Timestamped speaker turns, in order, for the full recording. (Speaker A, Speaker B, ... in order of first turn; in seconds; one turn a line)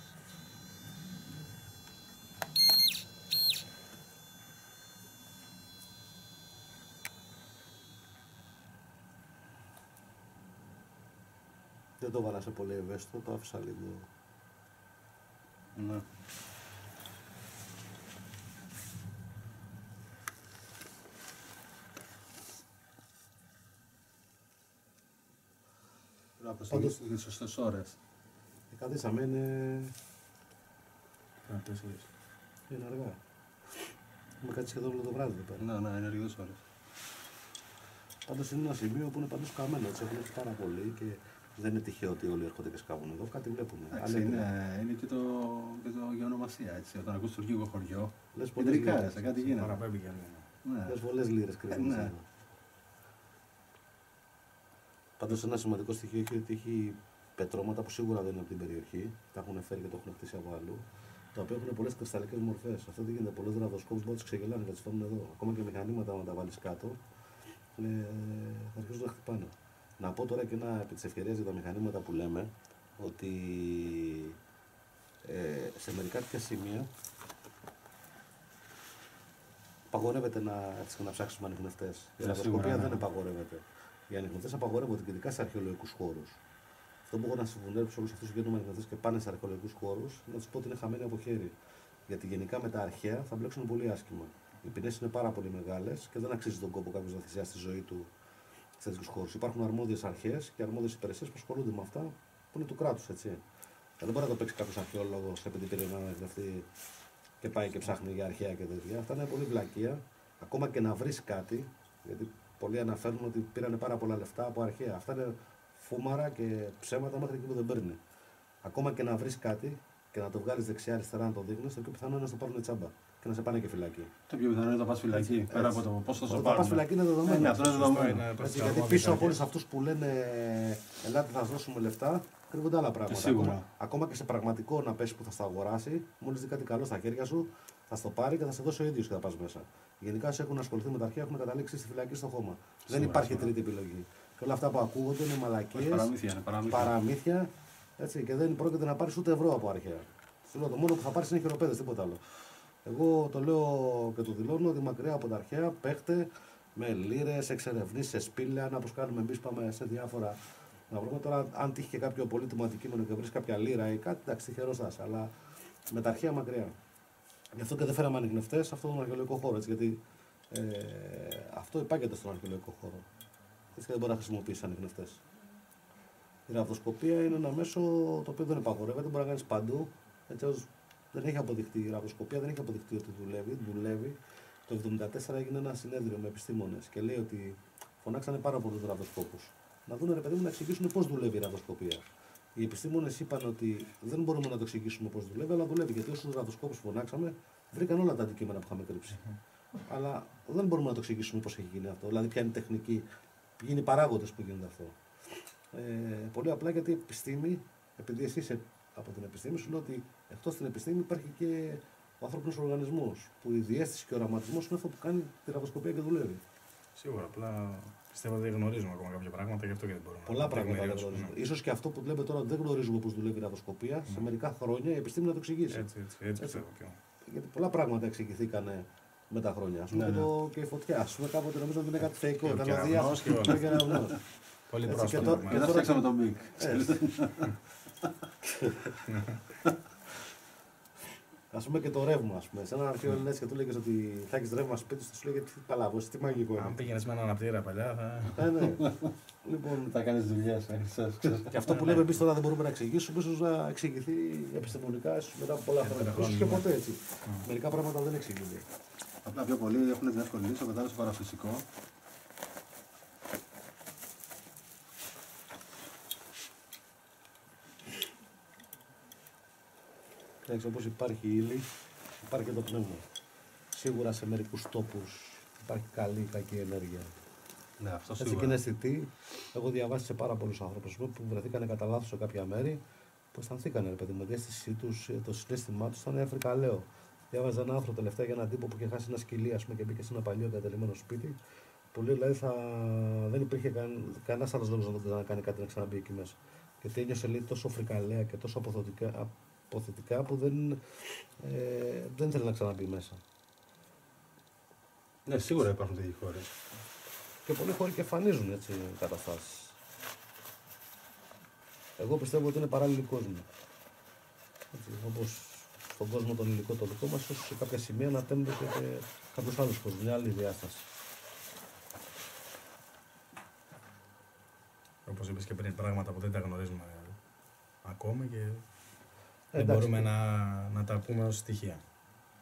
Speaker A: 12.0-14.1
Speaker B: 15.7-16.1
Speaker B: 26.4-28.0
Speaker A: 26.7-27.0
Speaker A: 28.7-29.9
Speaker C: 31.5-32.1
Speaker A: 32.7-33.2
Speaker A: 33.7-35.6
Speaker B: 35.6-36.6
Speaker A: 38.3-44.5
Speaker B: 43.9-49.8
Speaker A: 48.3-49.4
Speaker C: 49.4-50.5
Speaker B: 50.6-51.0
Speaker A: 50.9-52.3
Speaker B: 51.7-52.1
Speaker A: 55.2-67.0
Speaker A: 67.8-74.4
Speaker A: 75.2-76.9
Speaker A: 79.9-86.4
Speaker B: 82.2-83.0
Speaker A: 87.1-91.5
Speaker A: 92.1-98.1
Speaker A: 98.8-103.4
Speaker A: 104.0-106.7
Speaker A: 107.4-118.0
Speaker A: 118.6-124.1
Speaker B: 124.3-128.3
Speaker A: 125.1-146.1
Speaker C: 127.3-129.4
Speaker B: 133.1-133.7
Speaker B: 142.9-143.6
Speaker B: 145.7-147.0
Speaker A: 146.7-152.3
Speaker A: 152.8-165.3
Speaker A: 165.9-166.8
Speaker A: 167.5-173.1
Speaker A: 173.7-175.2
Speaker A: 176.5-199.2
Speaker A: 199.9-203.1
Speaker A: 203.6-205.0
Speaker A: 205.7-216.4
Speaker C: 217.0-221.3
Speaker A: 220.3-225.9
Speaker C: 225.7-227.0
Speaker A: 226.4-226.6
Speaker A: 227.2-234.2
Speaker B: 229.9-230.3
Speaker C: 232.4-234.1
Speaker C: 234.7-235.9
Speaker A: 234.9-237.2
Speaker B: 235.2-238.1
Speaker A: 238.6-239.0
Speaker C: 239.1-239.4
Speaker A: 241.5-246.9
Speaker C: 246.5-248.6
Speaker A: 248.3-250.0
Speaker B: 249.9-251.8
Speaker A: 251.3-258.7
Speaker C: 251.6-252.2
Speaker C: 255.8-256.7
Speaker B: 259.2-261.7
Speaker A: 270.4-273.1
Speaker A: 273.7-277.2
Speaker B: 277.8-278.6
Speaker A: 278.2-282.8
Speaker A: 283.3-291.4
Speaker A: 291.9-303.2
Speaker B: 305.3-306.5
Speaker A: 307.5-309.8
Speaker A: 312.0-313.5
Speaker A: 314.7-320.9
Speaker C: 325.1-327.2
Speaker C: 327.8-328.6
Speaker A: 329.5-330.1
Speaker C: 329.5-331.8